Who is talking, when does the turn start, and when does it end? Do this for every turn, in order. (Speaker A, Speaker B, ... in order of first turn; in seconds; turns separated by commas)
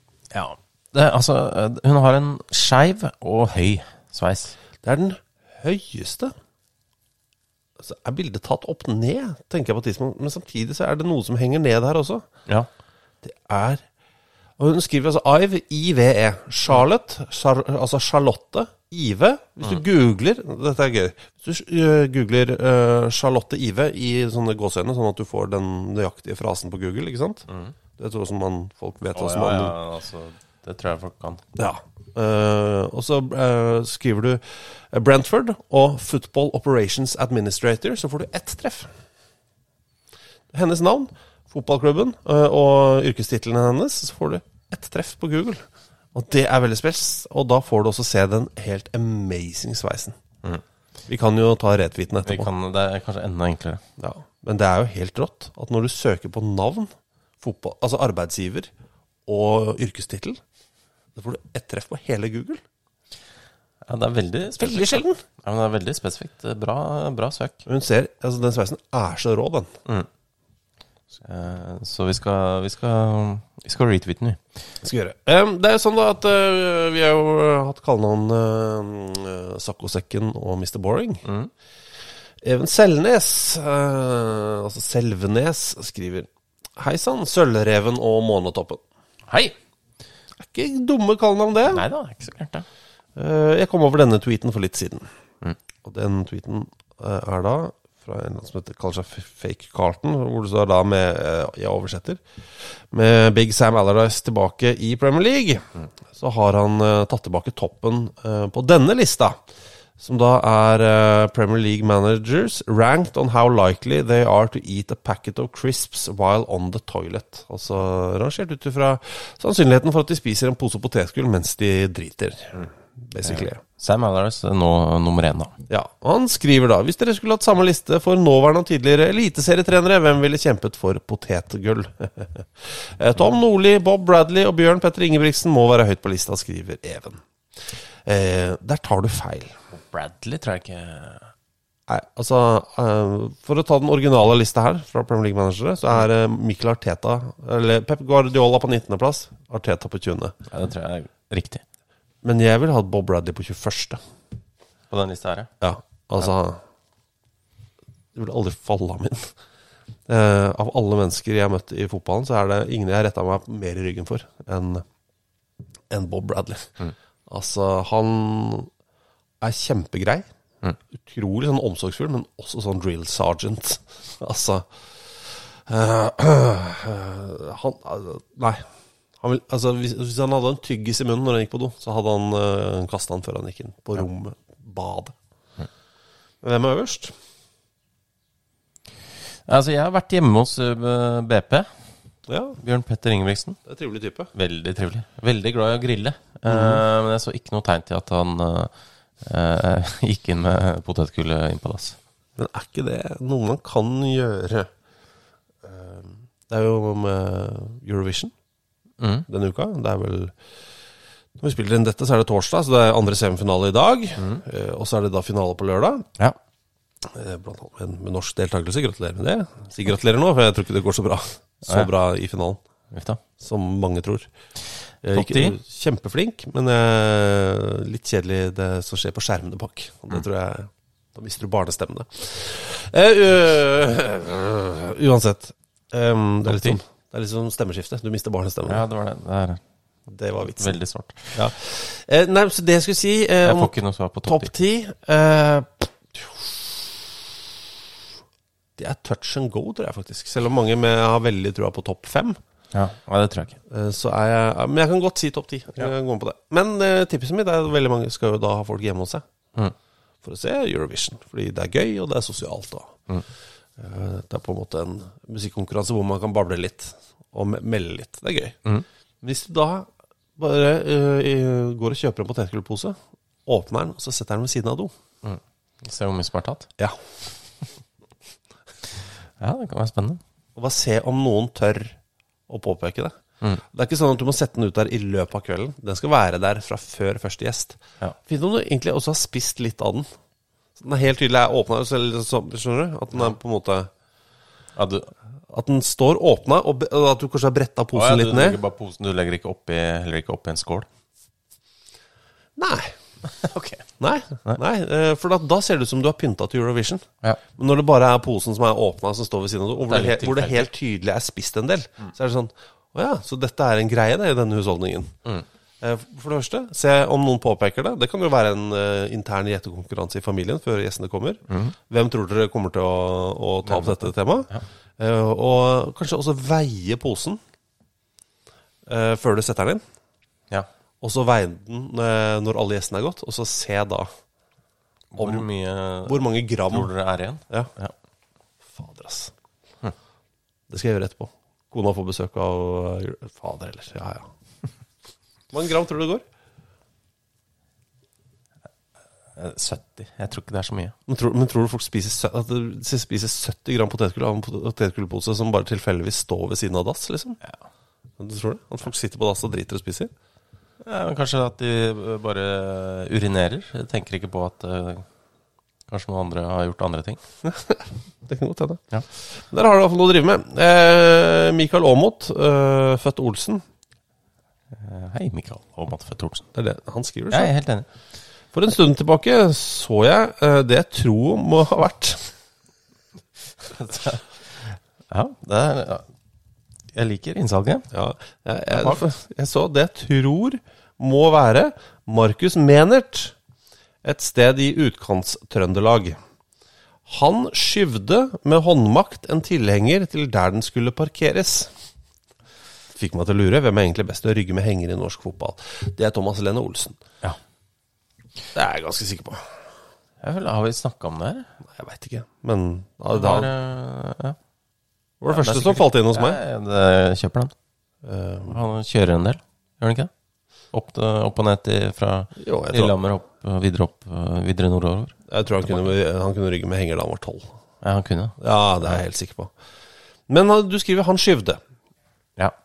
Speaker A: 0.3-4.6, Speaker B: 4.8-6.3, Speaker B: 7.8-12.2, Speaker B: 13.2-13.8, Speaker B: 14.6-27.4, Speaker A: 27.5-27.7, Speaker B: 28.0-29.8, Speaker A: 29.1-31.4, Speaker B: 31.6-38.9, Speaker B: 40.5-50.2, Speaker B: 51.1-52.5, Speaker A: 52.2-53.8, Speaker B: 54.0-58.7, Speaker B: 59.3-60.4, Speaker B: 61.1-62.6, Speaker A: 63.8-67.6, Speaker B: 64.6-65.2, Speaker B: 67.7-69.7, Speaker A: 71.2-74.4, Speaker B: 74.8-81.2, Speaker A: 81.2-81.5, Speaker B: 82.4-88.8, Speaker A: 89.3-89.5, Speaker B: 90.4-91.8, Speaker A: 91.7-92.7, Speaker B: 93.2-95.1, Speaker B: 95.8-109.4, Speaker B: 110.0-123.6, Speaker A: 123.2-125.5, Speaker B: 125.7-137.2, Speaker B: 138.1-139.5, Speaker A: 139.7-141.3, Speaker B: 141.9-150.3, Speaker A: 150.5-151.6, Speaker B: 152.2-154.0, Speaker A: 154.9-155.5, Speaker B: 155.6-156.6, Speaker B: 158.1-159.3, Speaker B: 160.1-164.8, Speaker B: 165.9-166.7, Speaker B: 167.3-168.7, Speaker B: 169.4-170.3, Speaker B: 171.0-178.7, Speaker B: 179.2-185.1, Speaker B: 186.4-187.1, Speaker A: 189.5-191.7, Speaker B: 192.3-192.6, Speaker A: 192.6-193.6, Speaker B: 193.7-194.3, Speaker A: 194.3-198.7, Speaker B: 196.4-196.8, Speaker A: 199.2-202.0, Speaker B: 202.4-204.7, Speaker B: 205.6-208.3, Speaker A: 209.0-209.2, Speaker B: 209.3-210.3, Speaker B: 211.4-216.1, Speaker A: 214.2-214.4, Speaker B: 217.0-222.6, Speaker A: 222.9-223.2, Speaker B: 223.4-224.3, Speaker B: 225.0-238.8, Speaker A: 225.1-225.6, Speaker A: 236.4-236.8, Speaker A: 238.7-239.6, Speaker B: 240.1-240.8, Speaker A: 240.6-241.4, Speaker B: 241.3-243.7, Speaker A: 243.4-244.5, Speaker B: 244.2-247.3, Speaker B: 248.8-252.4, Speaker A: 252.7-253.6, Speaker B: 253.7-259.2, Speaker B: 260.2-263.0, Speaker B: 263.8-268.6, Speaker B: 269.2-274.9, Speaker A: 275.2-276.7, Speaker A: 279.4-280.2, Speaker B: 280.6-282.0, Speaker B: 282.5-283.2, Speaker B: 283.7-290.1, Speaker B: 290.8-293.9, Speaker A: 294.8-295.1, Speaker B: 295.5-298.6, Speaker A: 297.9-300.9, Speaker B: 302.6-302.9, Speaker A: 303.4-303.8, Speaker B: 304.0-315.1, Speaker A: 309.9-310.7, Speaker B: 315.8-327.4, Speaker A: 321.5-321.7, Speaker A: 323.6-324.6, Speaker B: 328.9-329.8, Speaker B: 331.0-334.1, Speaker A: 335.1-337.9, Speaker B: 335.2-335.5, Speaker B: 336.0-336.9, Speaker B: 338.7-339.3, Speaker B: 340.7-344.3, Speaker B: 345.5-346.2, Speaker A: 349.4-350.9, Speaker B: 351.1-357.4, Speaker B: 358.2-360.1, Speaker A: 360.8-365.0, Speaker A: 365.9-367.2, Speaker B: 367.4-368.8, Speaker B: 369.5-373.6, Speaker A: 374.7-376.5, Speaker B: 376.6-377.5, Speaker A: 377.3-377.9, Speaker B: 378.5-382.3, Speaker A: 383.6-386.0, Speaker A: 386.9-387.8, Speaker B: 387.9-393.3, Speaker A: 388.7-389.0, Speaker B: 394.0-396.2, Speaker B: 397.1-401.7, Speaker B: 402.9-407.0, Speaker B: 408.5-409.5, Speaker A: 410.2-411.5, Speaker B: 411.6-413.5, Speaker A: 413.1-414.4, Speaker B: 415.2-416.4, Speaker A: 415.3-417.5, Speaker B: 418.0-418.6, Speaker A: 418.5-420.1, Speaker A: 420.7-425.9, Speaker B: 422.4-422.9, Speaker B: 425.3-427.5, Speaker A: 427.8-429.0, Speaker B: 428.4-429.5, Speaker B: 430.3-431.6